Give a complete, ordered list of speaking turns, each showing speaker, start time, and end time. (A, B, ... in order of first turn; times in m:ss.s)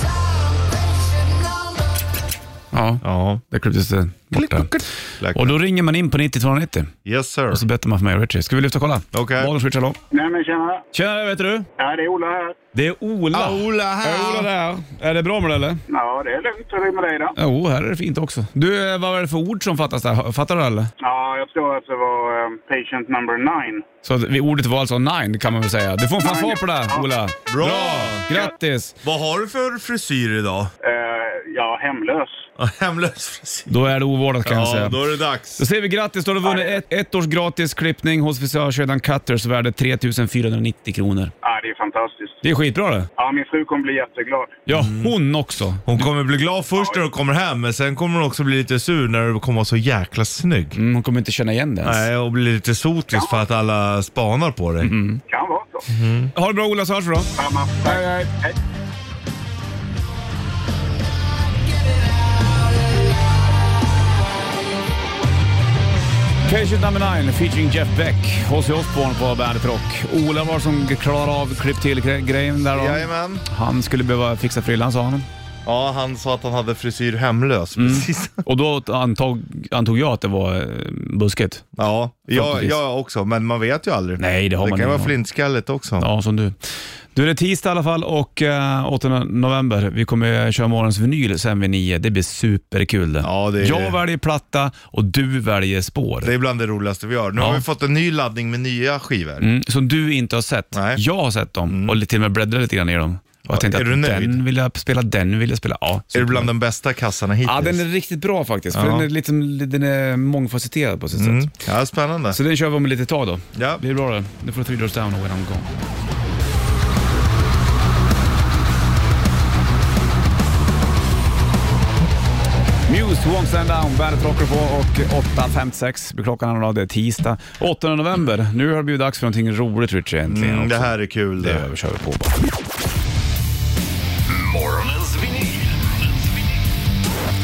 0:02.7-0:06.9 A
0:03.0-0:03.4 B
0:04.3-0:05.6 B
0:07.0-0:07.6 B
0:07.5-0:10.0 A
0:09.1-0:09.5 B
0:10.1-0:10.8 C
0:10.9-0:11.7 A
0:11.8-0:12.6 C
0:12.7-0:15.8 A
0:13.3-0:14.5 B
0:15.9-0:17.4 C
0:17.4-0:20.9 A
0:21.0-0:23.8 C
0:24.0-0:29.0 A
0:26.2-0:27.1 C
0:27.5-0:28.3 B
0:29.0-0:30.7 B
0:30.8-0:32.4 C
0:32.6-0:33.8 B
0:33.7-0:35.0 A
0:34.4-0:35.6 B
0:35.6-0:41.3 A
0:36.4-0:36.8 C
0:41.4-0:42.4 C
0:42.4-0:43.1 A
0:43.2-0:44.6 C
0:44.7-0:46.0 A
0:44.7-0:45.1 B
0:45.9-0:50.8 B
0:50.8-0:52.1 A
0:51.8-0:54.9 B
0:54.8-0:55.2 A
0:55.3-0:55.8 C
0:55.9-0:56.3 B
0:56.3-0:58.3 A
0:57.4-0:58.6 C
1:06.4-1:15.3 A
1:12.8-1:13.4 B
1:15.6-1:18.4 B
1:17.8-1:21.6 A
1:21.8-1:26.1 B
1:22.3-1:22.8 A
1:24.2-1:25.2 A
1:26.0-1:36.3 A
1:33.2-1:34.0 B
1:36.2-1:39.5 B
1:37.4-1:37.6 A
1:39.4-1:46.5 A
1:40.7-1:41.0 B
1:41.7-1:42.0 B
1:43.4-1:44.4 B
1:46.1-1:47.8 B
1:47.4-1:51.5 A
1:48.7-1:49.1 B
1:51.1-1:52.4 B
1:52.3-1:55.7 A
1:53.6-1:53.8 B
2:02.9-2:12.3 A
2:10.3-2:11.7 B
2:14.3-2:16.3 D